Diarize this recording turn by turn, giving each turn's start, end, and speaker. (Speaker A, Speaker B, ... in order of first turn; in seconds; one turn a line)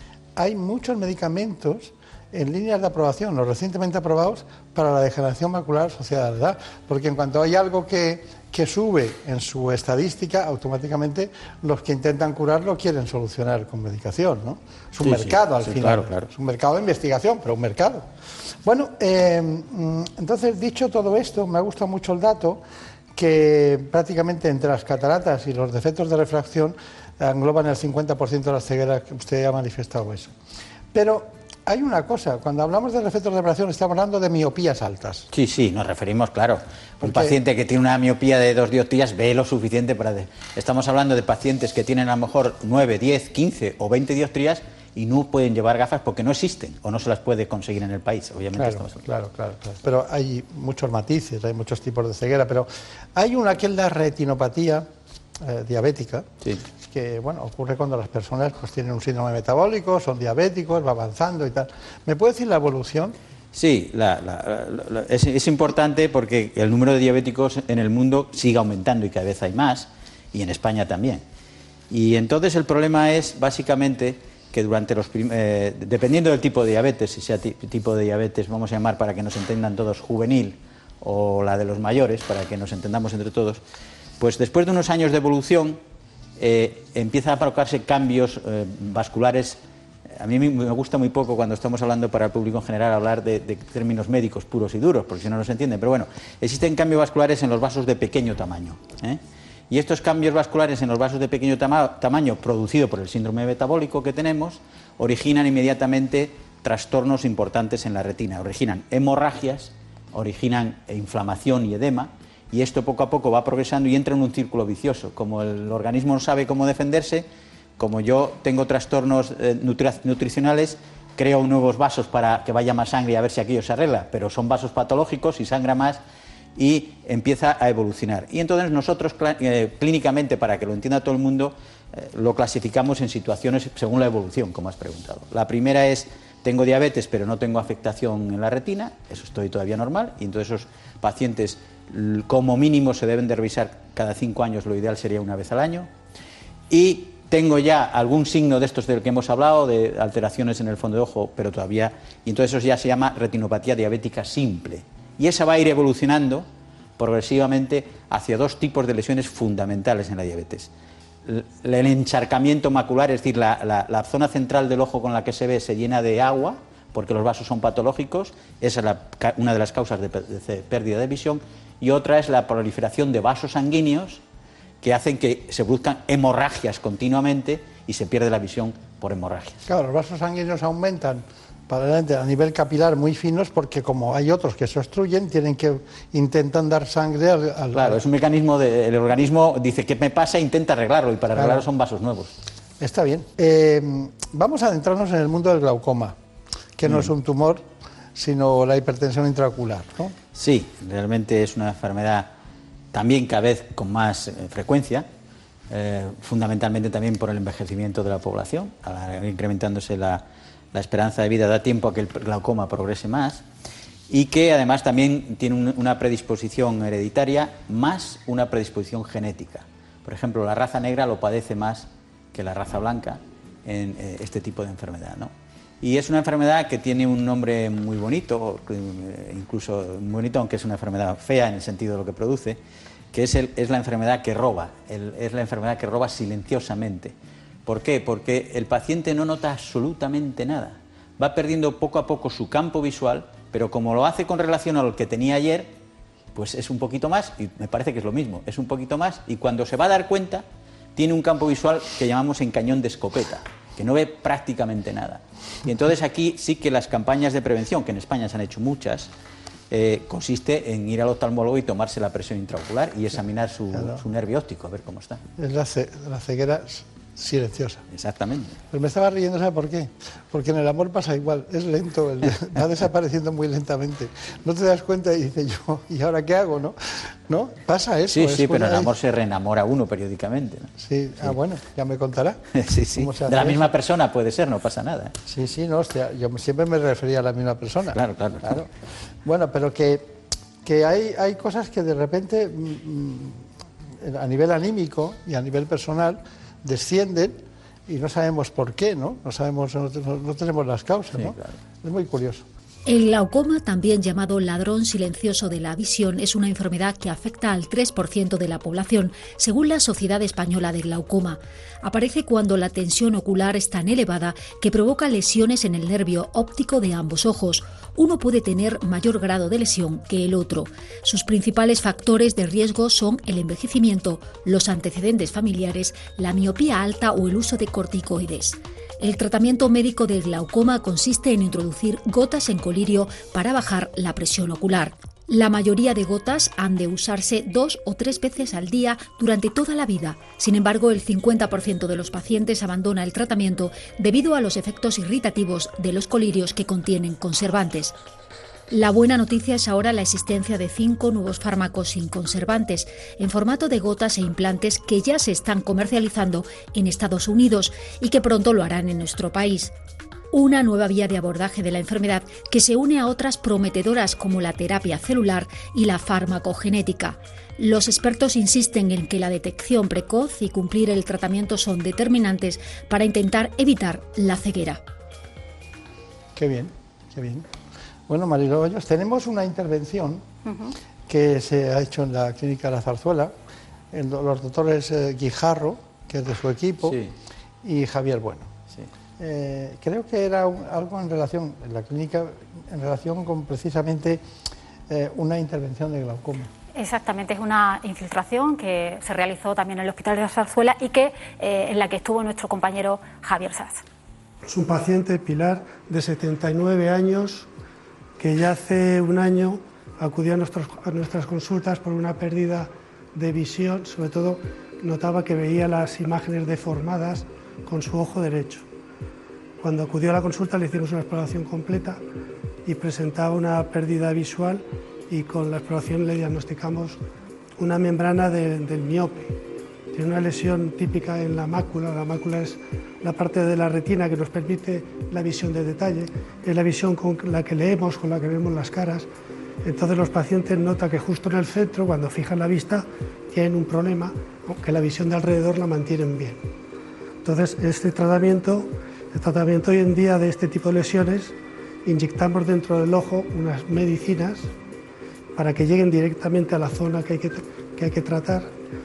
Speaker A: 0.4-18.1
Speaker B: 15.0-16.3
Speaker A: 18.6-22.6
Speaker A: 23.1-30.4
Speaker A: 30.9-35.3
Speaker B: 35.3-49.0
Speaker A: 37.0-37.4
Speaker A: 48.6-54.9
Speaker A: 55.4-63.1
Speaker B: 63.5-71.2
Speaker B: 71.9-83.6
Speaker B: 84.2-85.8
Speaker B: 86.4-89.6
Speaker B: 90.1-126.0
Speaker B: 126.6-145.9
Speaker B: 146.7-156.5
Speaker B: 157.0-160.7
Speaker B: 161.2-174.2
Speaker B: 174.8-179.6
Speaker A: 179.7-188.0
Speaker B: 187.7-192.4
Speaker A: 191.3-191.7
Speaker A: 192.8-196.2
Speaker A: 196.8-200.2
Speaker B: 196.8-197.1
Speaker B: 200.3-202.3
Speaker B: 202.9-205.1
Speaker B: 205.7-213.5
Speaker B: 214.1-232.6
Speaker B: 233.1-245.8
Speaker B: 246.3-259.1
Speaker B: 259.7-265.2
Speaker A: 263.7-264.0
Speaker A: 265.4-267.9
Speaker B: 267.9-268.6
Speaker A: 268.7-278.9
Speaker B: 278.1-281.4
Speaker A: 280.8-283.7
Speaker B: 282.5-285.2
Speaker A: 285.3-288.7
Speaker B: 287.9-288.6
Speaker A: 289.2-293.5
Speaker A: 294.0-302.5
Speaker B: 301.1-301.6
Speaker C: 302.9-347.9
Speaker C: 348.7-359.7
Speaker C: 360.3-374.8
Speaker A: 376.4-377.5
Speaker A: 378.1-380.3
Speaker A: 381.1-383.3
Speaker A: 383.9-387.0
Speaker B: 386.8-387.1
Speaker A: 387.6-388.5
Speaker A: 389.2-394.2
Speaker A: 394.9-396.5
Speaker D: 396.8-403.8
Speaker E: 404.5-407.5
Speaker E: 408.2-418.7
Speaker E: 419.6-422.0
Speaker E: 422.7-427.0
Speaker E: 427.6-429.4
Speaker E: 429.9-439.1
Speaker E: 439.6-446.4
Speaker E: 447.2-454.5
Speaker E: 455.4-458.5